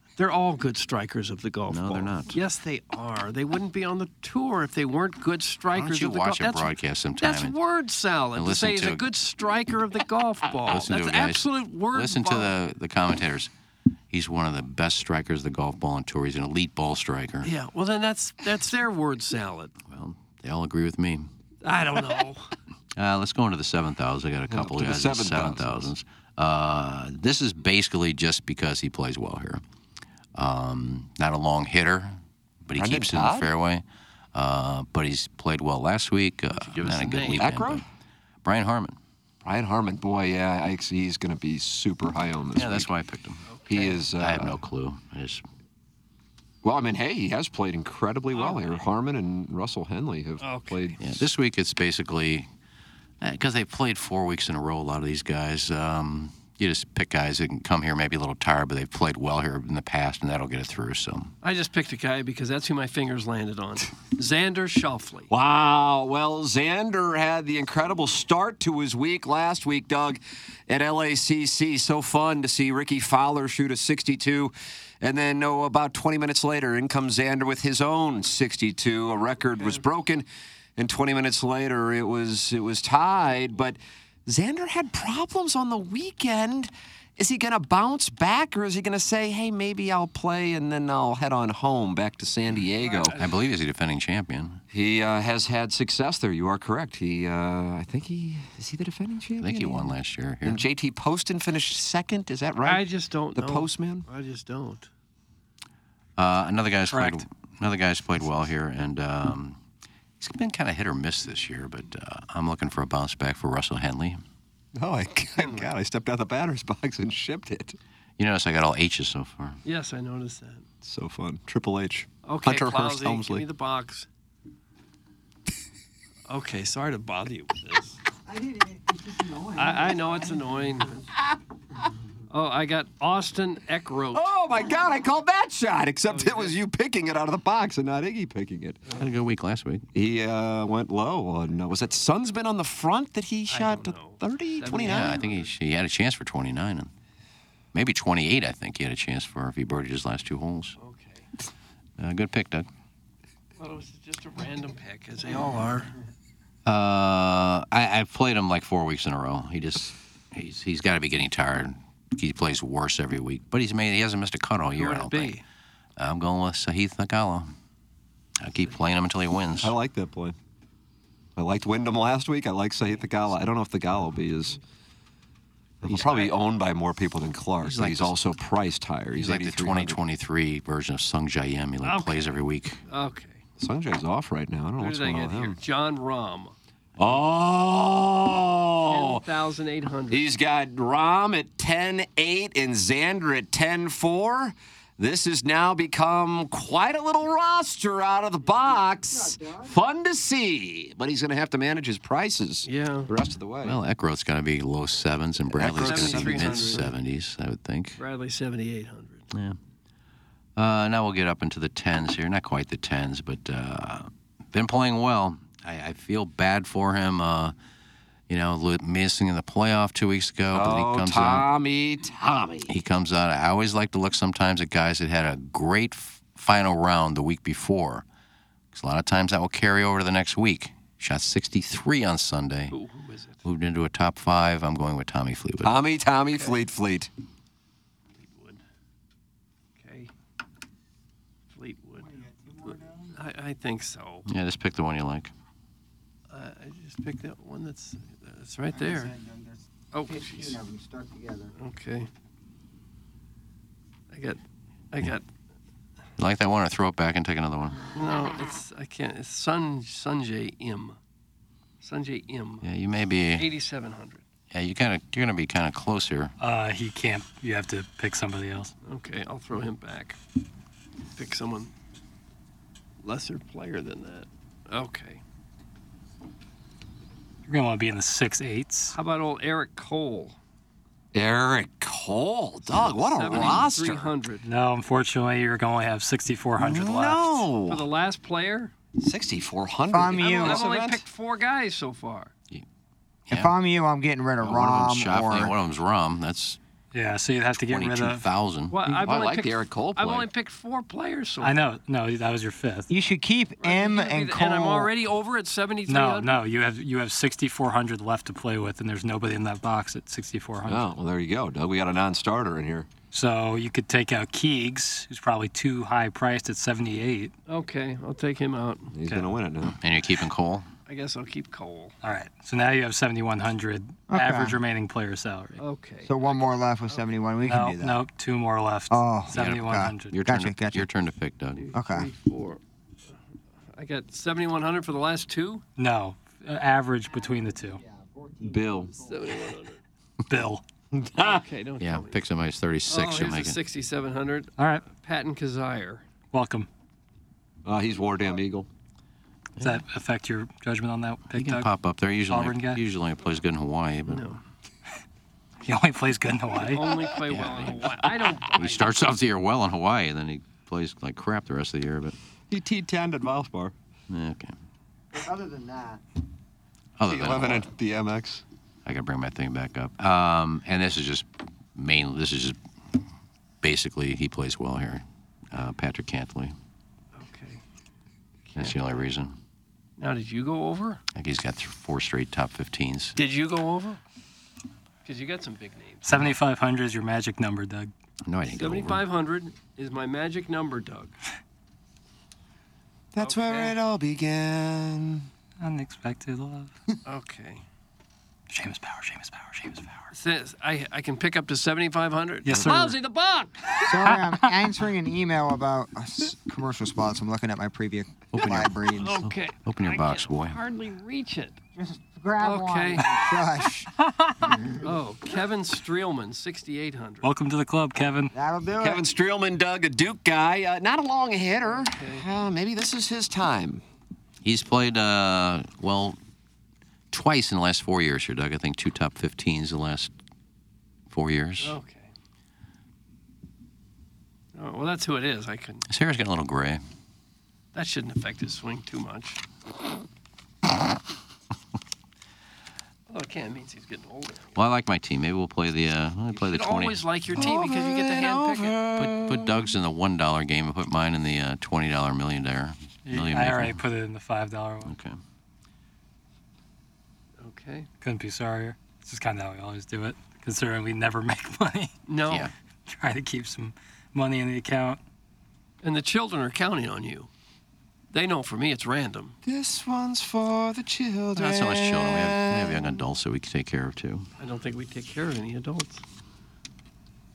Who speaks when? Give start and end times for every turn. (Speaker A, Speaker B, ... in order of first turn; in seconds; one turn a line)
Speaker A: 0.2-12.5
Speaker B: 1.7-2.4
Speaker B: 5.7-7.6
Speaker B: 8.3-9.1
Speaker B: 10.7-13.5
Speaker B: 14.1-17.5
Speaker A: 17.4-19.7
Speaker B: 19.9-21.3
Speaker A: 21.6-22.5
Speaker B: 22.9-29.6
Speaker C: 24.5-25.9
Speaker B: 30.3-37.8
Speaker C: 32.8-33.5
Speaker A: 36.5-37.5
Speaker C: 37.3-37.8
Speaker B: 38.4-39.0
Speaker C: 39.4-42.9
Speaker B: 42.5-43.4
Speaker A: 43.5-44.0
Speaker C: 43.7-44.6
Speaker B: 44.1-45.4
Speaker C: 46.6-51.0
Speaker A: 48.3-48.8
Speaker A: 50.4-51.0
Speaker B: 51.0-52.5
Speaker B: 53.2-61.3
Speaker A: 61.4-65.3
Speaker C: 65.3-80.2
Speaker C: 80.8-93.1
Speaker A: 92.8-93.3
Speaker B: 93.2-94.6
Speaker C: 94.7-104.1
Speaker B: 99.4-100.6
Speaker A: 102.6-104.9
Speaker B: 106.2-109.6
Speaker D: 106.9-107.2
Speaker B: 110.2-114.2
Speaker C: 114.8-117.8
Speaker A: 115.4-115.7
Speaker B: 118.2-119.6
Speaker A: 119.6-120.7
Speaker C: 120.8-123.4
Speaker A: 122.2-124.1
Speaker A: 126.3-128.0
Speaker E: 128.2-130.6
Speaker A: 129.6-131.0
Speaker A: 132.3-134.3
Speaker C: 134.1-138.8
Speaker A: 136.1-136.6
Speaker B: 138.9-139.9
Speaker C: 139.9-145.2
Speaker A: 143.5-145.5
Speaker B: 144.8-146.9
Speaker B: 147.7-150.8
Speaker A: 150.8-151.3
Speaker B: 152.0-152.7
Speaker A: 153.6-155.9
Speaker B: 156.7-165.4
Speaker A: 164.7-165.4
Speaker B: 166.0-167.5
Speaker B: 168.4-169.7
Speaker C: 169.6-170.3
Speaker C: 171.3-174.6
Speaker C: 175.8-180.0
Speaker A: 175.9-176.2
Speaker B: 177.6-178.2
Speaker B: 179.1-182.8
Speaker A: 181.8-182.3
Speaker A: 182.9-183.4
Speaker C: 183.6-185.6
Speaker A: 184.8-186.5
Speaker C: 187.0-189.2
Speaker A: 188.8-190.2
Speaker C: 190.1-203.8
Speaker E: 199.1-199.7
Speaker A: 202.7-203.1
Speaker B: 203.6-208.0
Speaker C: 205.5-206.9
Speaker A: 205.7-206.9
Speaker A: 208.0-209.3
Speaker B: 209.3-209.6
Speaker B: 210.6-217.5
Speaker B: 218.3-221.4
Speaker C: 220.5-222.7
Speaker B: 222.7-228.0
Speaker B: 228.7-232.8
Speaker A: 232.7-233.4
Speaker B: 233.4-235.8
Speaker C: 235.6-237.1
Speaker A: 238.2-238.6
Speaker A: 239.8-240.1
Speaker A: 241.5-242.2
Speaker E: 242.0-243.2
Speaker A: 243.1-244.2
Speaker B: 244.3-245.3
Speaker A: 246.3-249.1
Speaker E: 248.7-251.5
Speaker A: 249.9-250.6
Speaker A: 251.6-252.1
Speaker A: 254.1-254.4
Speaker A: 254.9-255.2
Speaker B: 256.2-257.9
Speaker A: 257.9-261.0
Speaker A: 261.8-262.7
Speaker B: 262.6-263.5
Speaker A: 263.4-264.2
Speaker B: 264.5-266.3
Speaker D: 266.4-268.7
Speaker A: 268.8-270.2
Speaker A: 271.1-271.7
Speaker A: 273.0-275.2
Speaker D: 277.5-278.9
Speaker A: 278.9-280.4
Speaker C: 281.1-284.1
Speaker A: 282.8-284.4
Speaker D: 284.4-287.4
Speaker C: 286.6-287.9
Speaker A: 287.6-288.7
Speaker C: 289.0-291.0
Speaker E: 289.9-290.6
Speaker A: 290.1-292.3
Speaker E: 293.3-295.6
Speaker B: 294.4-296.6
Speaker D: 296.9-298.3
Speaker B: 297.6-298.9
Speaker A: 298.7-301.6
Speaker C: 298.9-300.3
Speaker D: 301.4-302.9
Speaker E: 302.9-304.9
Speaker A: 303.6-306.4
Speaker D: 305.9-310.9
Speaker C: 310.6-312.9
Speaker D: 313.1-317.3
Speaker A: 317.5-318.9
Speaker C: 318.9-319.8
Speaker B: 319.8-320.7
Speaker A: 320.9-321.9
Speaker D: 322.0-325.6
Speaker E: 324.1-324.6
Speaker A: 325.6-326.3
Speaker E: 326.0-328.0
Speaker D: 327.4-330.1
Speaker E: 328.9-330.9
Speaker B: 329.3-331.7
Speaker A: 331.6-332.6
Speaker E: 331.7-332.1
Speaker A: 333.7-335.6
Speaker D: 335.8-337.8
Speaker E: 337.1-339.4
Speaker C: 338.4-338.9
Speaker A: 338.9-339.8
Speaker D: 340.3-340.6
Speaker C: 341.0-341.4
Speaker A: 341.2-342.2
Speaker B: 341.8-343.6
Speaker A: 342.9-346.1
Speaker D: 344.6-344.9
Speaker D: 346.3-346.7
Speaker C: 347.6-348.7
Speaker D: 349.6-351.7
Speaker B: 351.3-354.3
Speaker D: 352.3-352.8
Speaker A: 354.1-354.4
Speaker D: 355.6-356.9
Speaker A: 356.6-358.9
Speaker C: 356.9-357.2
Speaker B: 357.3-357.9
Speaker B: 358.5-362.2
Speaker C: 362.5-363.7
Speaker B: 364.1-364.5
Speaker E: 365.1-366.0
Speaker B: 367.0-367.7
Speaker C: 367.1-368.4
Speaker B: 368.9-373.0
Speaker B: 373.6-376.5
Speaker A: 377.1-377.6
Speaker B: 378.5-379.4
Speaker A: 380.0-381.0
Speaker B: 381.1-383.2
Speaker A: 383.1-384.0
Speaker A: 385.0-386.3
Speaker D: 386.0-387.9
Speaker B: 388.2-389.0
Speaker A: 388.5-391.1
Speaker C: 393.1-395.3
Speaker A: 393.2-393.8
Speaker D: 395.6-396.7
Speaker A: 397.1-397.6
Speaker D: 398.5-400.1
Speaker A: 400.1-403.8
Speaker D: 402.4-402.9
Speaker D: 403.8-404.5
Speaker E: 403.8-409.2
Speaker B: 408.3-410.6
Speaker A: 409.0-411.6
Speaker E: 411.8-413.9
Speaker A: 412.4-413.1
Speaker D: 414.2-414.5
Speaker E: 414.4-414.8
Speaker A: 414.8-417.3
Speaker D: 417.2-418.3
Speaker E: 418.3-419.0
Speaker C: 418.8-423.8
Speaker A: 421.6-422.2
Speaker B: 424.4-426.2
Speaker B: 427.1-430.1
Speaker B: 431.1-431.8
Speaker A: 431.6-432.1
Speaker A: 434.5-435.8
Speaker B: 435.9-436.8
Speaker A: 437.7-439.4
Speaker A: 443.1-444.6
Speaker B: 444.5-447.4
Speaker A: 446.3-448.8
Speaker C: 447.3-449.7
Speaker B: 448.9-453.8
Speaker D: 453.1-454.9
Speaker B: 454.9-455.2
Speaker A: 457.4-457.9
Speaker D: 458.0-461.9
Speaker A: 462.1-462.5
Speaker D: 462.9-465.0
Speaker A: 465.8-467.3
Speaker A: 468.1-469.3
Speaker C: 469.4-473.0
Speaker B: 471.4-474.3
Speaker A: 474.4-476.0